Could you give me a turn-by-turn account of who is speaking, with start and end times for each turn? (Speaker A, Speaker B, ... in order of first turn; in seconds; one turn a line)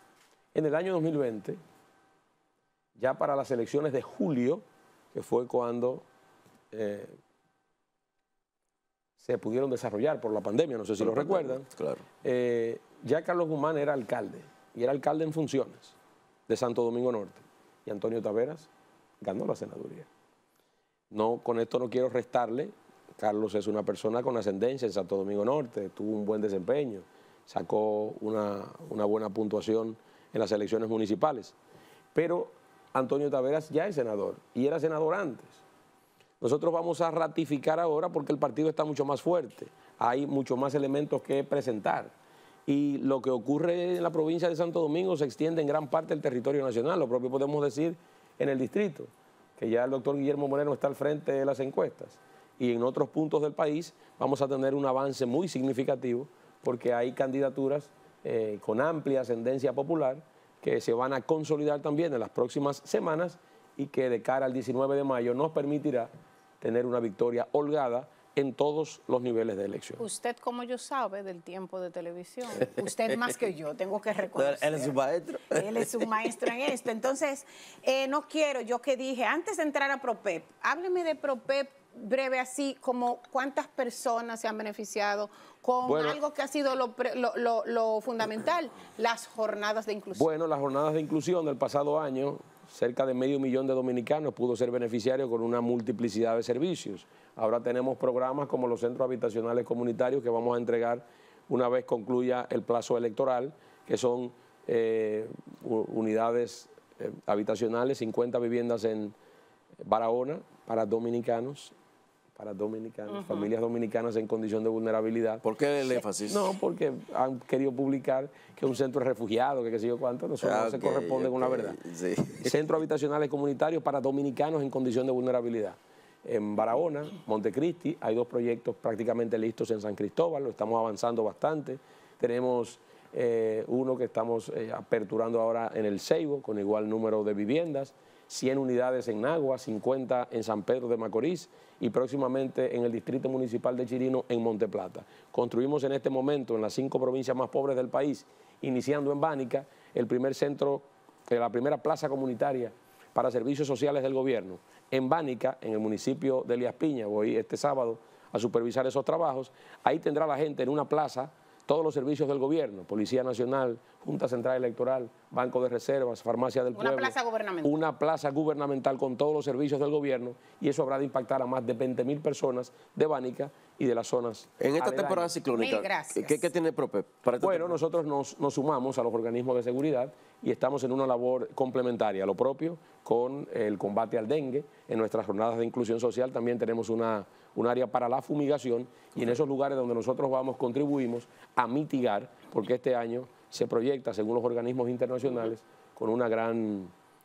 Speaker A: 0.5-1.6
Speaker A: 3.0-4.6
Speaker A: 5.1-6.0
Speaker A: 6.7-7.2
Speaker A: 9.2-11.7
Speaker B: 11.0-12.0
Speaker A: 12.2-15.9
Speaker A: 16.5-18.7
Speaker A: 19.2-20.1
Speaker A: 21.1-31.6
Speaker A: 32.1-35.6
Speaker A: 36.4-42.1
Speaker A: 42.7-66.1
Speaker A: 66.6-70.0
Speaker C: 70.0-74.9
Speaker B: 74.3-76.0
Speaker C: 75.5-90.2
Speaker A: 85.8-86.2
Speaker A: 90.1-109.1
Speaker A: 109.8-111.7
Speaker A: 112.3-115.4
Speaker C: 113.1-113.5
Speaker B: 115.4-116.5
Speaker A: 116.3-121.8
Speaker B: 120.4-122.5
Speaker A: 122.4-175.3
Speaker C: 166.7-167.8
Speaker B: 174.6-177.8
Speaker C: 175.5-176.5
Speaker A: 177.4-196.9